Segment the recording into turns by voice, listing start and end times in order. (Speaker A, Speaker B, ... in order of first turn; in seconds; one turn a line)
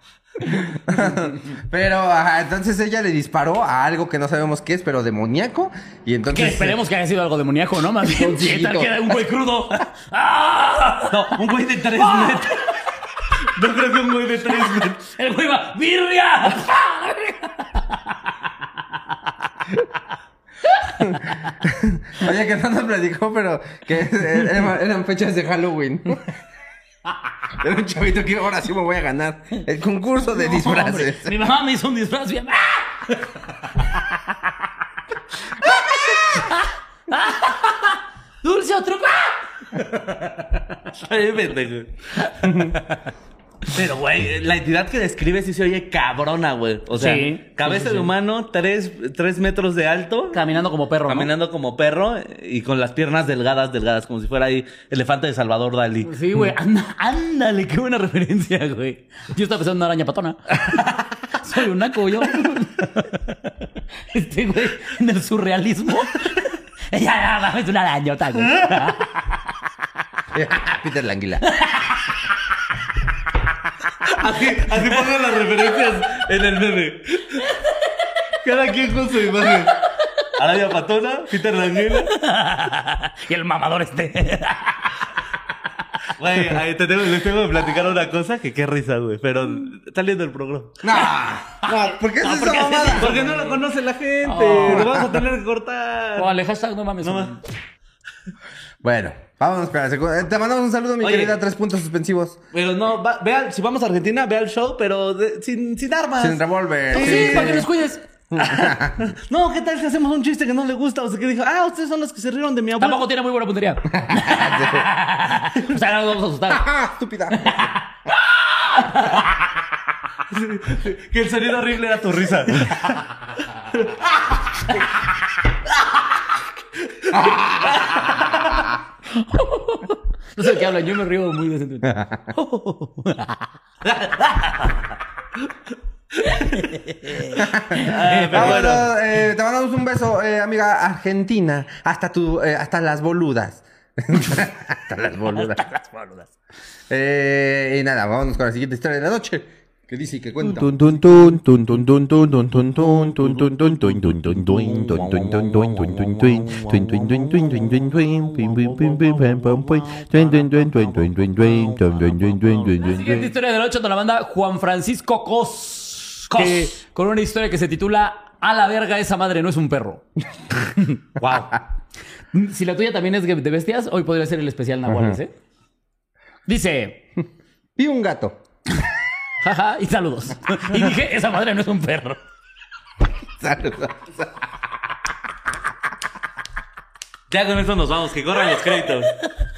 Speaker A: 0.5-6.8
Speaker B: 6.3-11.4
Speaker A: 8.1-9.1
Speaker C: 11.1-12.7
Speaker B: 11.9-12.8
Speaker C: 13.4-15.1
Speaker B: 15.2-18.3
Speaker B: 20.8-21.5
Speaker A: 21.0-26.2
Speaker A: 27.5-31.4
Speaker B: 30.2-34.5
Speaker B: 35.6-40.5
Speaker A: 35.6-36.5
Speaker C: 40.9-41.9
Speaker A: 42.4-42.7
Speaker C: 43.7-50.4
Speaker B: 46.9-48.1
Speaker B: 50.3-51.3
Speaker C: 51.1-56.1
Speaker B: 56.0-69.2
Speaker A: 70.3-71.4
Speaker B: 71.5-72.0
Speaker C: 74.0-77.5
Speaker C: 78.3-82.2
Speaker B: 81.9-85.0
Speaker C: 86.2-90.8
Speaker A: 90.8-93.3
Speaker B: 91.6-93.6
Speaker C: 92.9-96.3
Speaker B: 94.2-95.0
Speaker A: 94.6-95.2
Speaker B: 96.2-97.4
Speaker C: 97.0-97.3
Speaker A: 98.8-102.4
Speaker C: 101.0-101.4
Speaker C: 102.5-107.6
Speaker A: 106.2-107.7
Speaker B: 106.9-108.0
Speaker A: 108.3-109.0
Speaker C: 108.4-113.0
Speaker B: 112.8-116.7
Speaker A: 113.9-114.9
Speaker A: 116.5-117.7
Speaker B: 117.3-117.9
Speaker B: 118.4-119.5
Speaker C: 120.3-123.0
Speaker C: 123.7-124.3
Speaker C: 126.9-128.7
Speaker A: 127.1-127.6
Speaker B: 129.2-133.5
Speaker A: 131.8-132.2
Speaker C: 133.8-134.9
Speaker B: 136.2-138.7
Speaker C: 137.4-138.9
Speaker A: 137.4-145.7
Speaker B: 145.3-146.3
Speaker A: 146.9-150.8
Speaker D: 150.4-163.3
Speaker C: 152.8-162.8
Speaker B: 162.8-170.0
Speaker C: 166.3-166.7
Speaker B: 170.7-171.0
Speaker C: 171.2-171.6
Speaker B: 172.3-175.3
Speaker A: 174.9-175.2
Speaker B: 176.5-177.1
Speaker A: 177.8-178.4
Speaker B: 179.4-182.2
Speaker A: 183.4-184.3
Speaker C: 187.3-189.2